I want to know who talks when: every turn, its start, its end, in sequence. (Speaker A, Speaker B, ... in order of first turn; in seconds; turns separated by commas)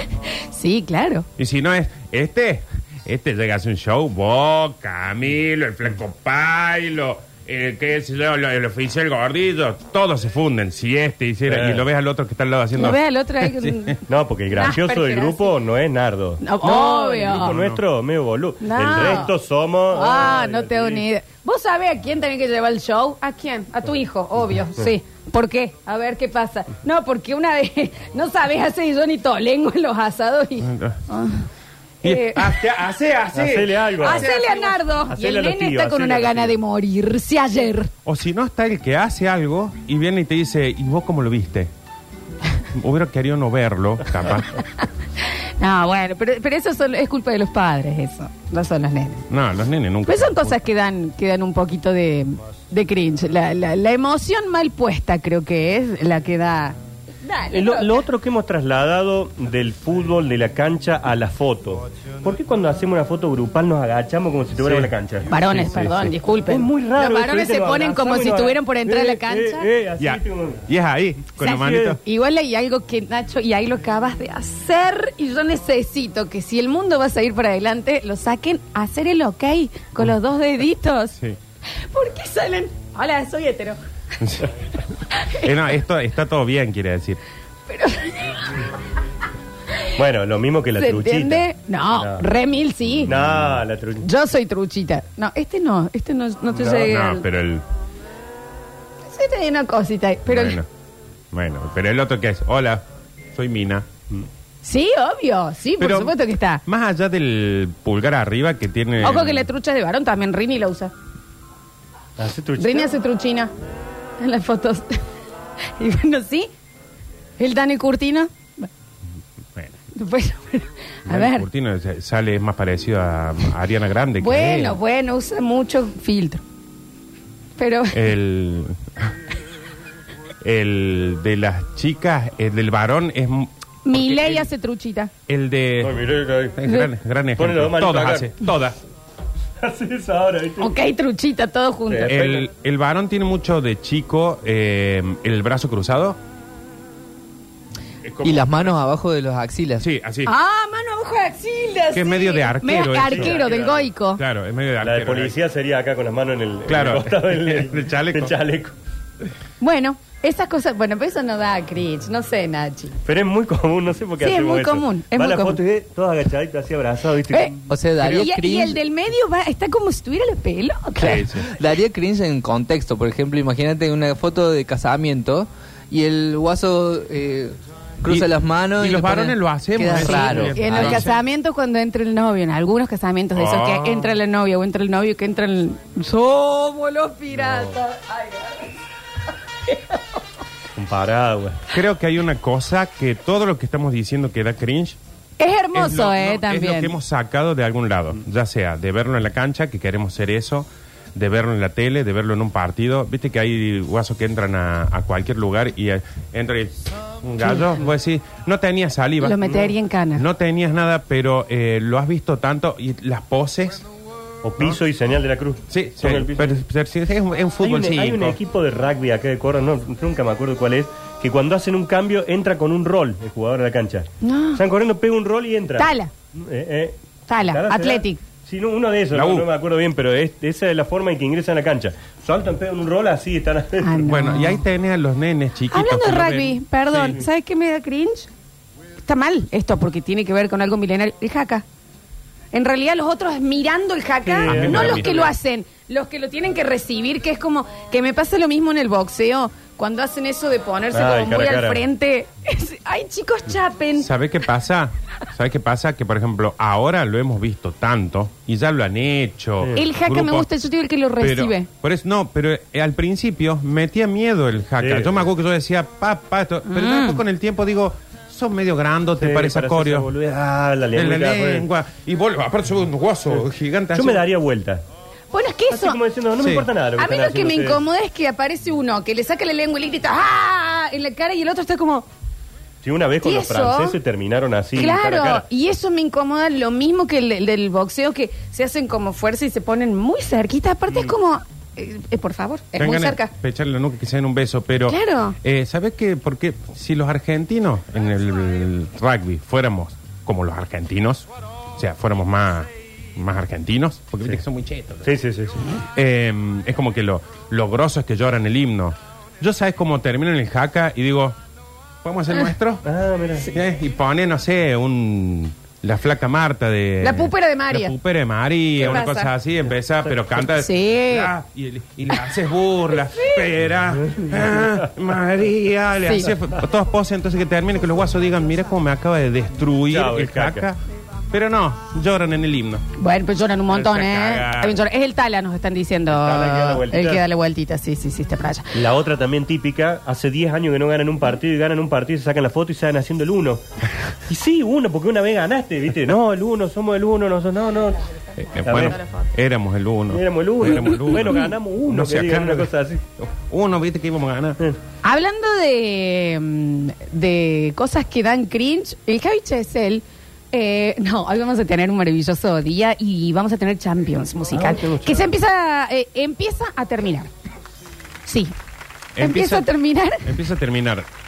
Speaker A: 0.5-1.2, Speaker B: 1.4-13.9, Speaker C: 11.5-11.8, Speaker A: 12.7-15.5, Speaker C: 14.1-21.1, Speaker A: 16.4-17.6, Speaker B: 17.3-17.8, Speaker A: 18.6-19.3, Speaker A: 19.9-31.4, Speaker B: 30.6-31.0, Speaker A: 32.0-32.6, Speaker B: 32.0-34.8, Speaker C: 33.3-34.3, Speaker A: 34.0-37.9, Speaker C: 35.1-36.6, Speaker B: 38.0-41.7, Speaker B: 42.7-44.6, Speaker A: 45.6-49.2, Speaker B: 49.3-50.6, Speaker A: 50.1-58.0, Speaker C: 57.5-70.7, Speaker B: 64.6-64.9, Speaker A: 65.3-69.7, Speaker B: 65.5-65.9, Speaker B: 70.0-72.0, Speaker C: 71.4-72.0, Speaker A: 71.4-81.2, Speaker A: 81.8-83.8, Speaker B: 84.2-84.5, Speaker A: 85.1-85.5, Speaker B: 85.3-87.2, Speaker A: 87.7-88.7, Speaker C: 89.9-92.2, Speaker A: 90.8-93.2, Speaker B: 93.0-93.6, Speaker C: 93.0-94.1, Speaker A: 94.0-97.2, Speaker C: 96.6-96.9, Speaker B: 96.7-97.6, Speaker A: 99.1-100.6, Speaker B: 100.2-100.7, Speaker B: 101.3-103.9, Speaker A: 104.6-106.6, Speaker B: 105.8-109.5, Speaker A: 109.0-110.9, Speaker C: 112.2-112.9, Speaker A: 112.6-113.5, Speaker A: 114.2-115.0, Speaker A: 115.8-116.5, Speaker A: 117.4-118.7, Speaker A: 119.9-121.5, Speaker B: 121.1-124.8, Speaker A: 124.2-126.4, Speaker A: 127.6-128.1, Speaker B: 127.9-129.1, Speaker B: 130.4-134.4, Speaker A: 133.8-135.1, Speaker B: 135.3-138.8, Speaker C: 135.8-136.6, Speaker C: 137.3-138.4, Speaker C: 139.6-140.7, Speaker A: 140.6-142.3, Speaker C: 141.9-142.4, Speaker B: 142.1-146.2, Speaker B: 148.0-148.8, Speaker D: 148.2-149.8, Speaker B: 149.8-150.3, Speaker A: 150.2-154.2, Speaker B: 151.9-155.3, Speaker C: 153.1-153.9, Speaker C: 154.8-158.7, Speaker B: 156.7-158.4, Speaker A: 159.6-163.0, Speaker C: 163.1-167.7, Speaker A: 164.2-165.6, Speaker A: 167.3-171.4, Speaker D: 167.7-168.8, Speaker B: 171.0-171.5, Speaker D: 171.5-181.1, Speaker B: 178.1-181.1, Speaker C: 180.1-180.5, Speaker A: 180.5-188.7, Speaker B: 183.3-184.2, Speaker C: 187.4-187.8, Speaker A: 189.7-190.0, Speaker C: 190.8-191.6, Speaker B: 191.7-195.0, Speaker A: 195.4-196.9, Speaker B: 195.7-209.5, Speaker A: 209.2-210.2, Speaker C: 209.4-209.7, Speaker B: 210.1-213.8, Speaker C: 214.4-216.6, Speaker B: 215.7-218.4, Speaker C: 217.6-226.9, Speaker A: 224.2-224.6, Speaker A: 225.8-226.1, Speaker A: 227.3-228.2, Speaker C: 227.5-234.1, Speaker B: 229.1-229.5, Speaker A: 233.8-234.6, Speaker B: 234.1-236.6, Speaker A: 235.7-238.3, Speaker C: 236.9-237.2, Speaker A: 239.0-241.6, Speaker A: 242.5-254.1, Speaker C: 244.2-245.3, Speaker B: 244.5-245.3, Speaker C: 250.9-251.8, Speaker B: 254.0-260.5, Speaker A: 259.8-261.7, Speaker B: 261.2-270.1, Speaker C: 264.8-265.2, Speaker A: 266.6-267.2, Speaker C: 269.2-271.7, Speaker B: 270.9-274.2, Speaker C: 273.3-274.8, Speaker A: 275.3-276.0, Speaker C: 275.7-277.8, Speaker B: 276.4-276.7, Speaker A: 277.0-282.1, Speaker C: 282.8-285.4, Speaker A: 283.2-284.0, Speaker A: 284.8-293.3, Speaker B: 292.8-305.1, Speaker A: 294.9-295.4, Speaker C: 305.0-305.6, Speaker B: 305.9-311.4, Speaker B: 312.0-312.8, Speaker C: 312.8-313.5, Speaker B: 313.5-330.8, Speaker A: 317.0-317.9, Speaker A: 318.8-319.3, Speaker A: 320.5-321.3, Speaker A: 323.1-323.5, Speaker A: 326.1-326.3, Speaker C: 329.9-330.7, Speaker B: 331.3-332.8, Speaker A: 332.9-338.8, Speaker B: 333.7-334.8, Speaker C: 336.1-337.2, Speaker C: 338.7-343.6, Speaker C: 344.3-348.0, Speaker B: 348.4-354.6, Speaker C: 348.6-349.0, Speaker C: 350.1-353.0, Speaker A: 355.0-367.3, Speaker C: 364.5-365.3, Speaker A: 368.2-368.5, Speaker B: 369.1-369.7, Speaker A: 369.2-370.3, Speaker B: 370.2-371.1